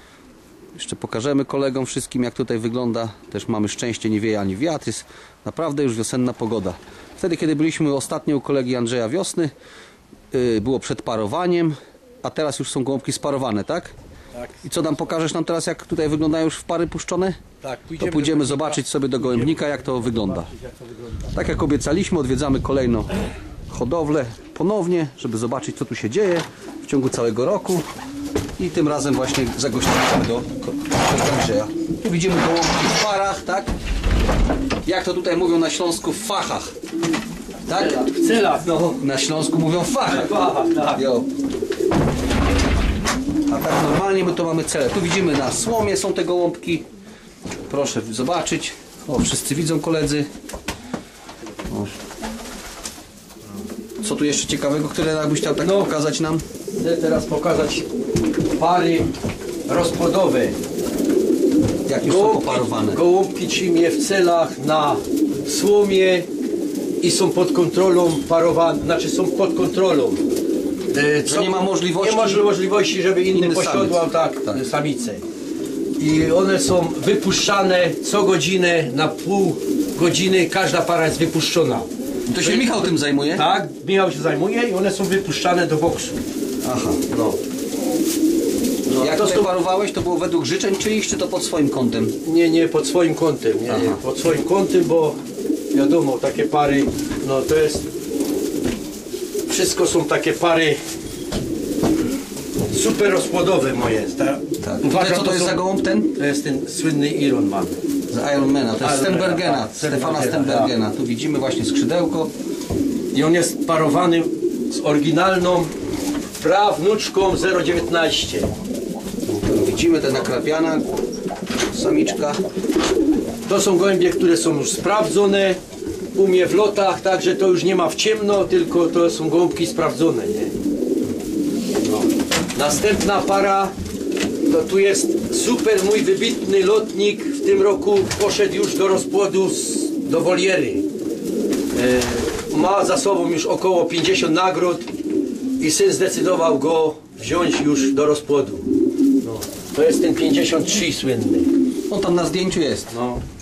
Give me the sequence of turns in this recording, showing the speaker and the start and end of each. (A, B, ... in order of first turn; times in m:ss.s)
0:00.8-0:09.5 A
0:10.3-0:13.9 A
0:14.3-0:14.7 B
0:14.6-0:17.4 A
0:17.6-0:21.3 B
0:18.0-0:20.5 A
0:21.3-0:23.1 A
0:23.7-0:27.8 A
0:28.6-0:33.7 A
0:34.8-0:36.7 A
0:37.7-0:38.0 A
0:37.7-0:39.0 B
0:38.9-0:41.3 A
0:40.0-0:41.0 B
0:43.5-0:46.8 A
0:47.7-0:50.3 A
0:51.7-0:51.9 A
0:54.0-0:56.4 A
0:55.6-0:55.9 B
0:56.7-0:57.9 B
0:58.6-0:59.1 B
0:59.7-1:00.6 B
1:01.8-1:03.0 A
1:02.0-1:06.3 B
1:07.0-1:10.2 B
1:10.9-1:15.2 B
1:11.3-1:12.4 A
1:13.3-1:14.6 A
1:16.0-1:21.9 B
1:22.3-1:23.5 A
1:22.4-1:26.2 B
1:26.6-1:27.0 A
1:27.1-1:27.4 B
1:28.9-1:29.5 B
1:29.0-1:32.2 A
1:32.2-1:35.2 B
1:33.7-1:34.0 A
1:35.7-1:37.9 B
1:39.5-1:40.8 B
1:42.7-1:45.6 B
1:44.6-1:46.1 A
1:46.1-1:47.8 B
1:48.1-1:52.3 A
1:48.8-1:50.7 B
1:53.1-1:55.7 B
1:56.4-1:58.5 B
1:59.2-2:00.9 A
2:01.7-2:02.4 A
2:03.5-2:05.6 B
2:06.2-2:10.5 B
2:11.9-2:13.7 B
2:14.5-2:20.9 B
2:21.7-2:24.9 B
2:25.6-2:28.7 B
2:29.2-2:31.5 B
2:31.9-2:32.9 A
2:32.9-2:33.2 B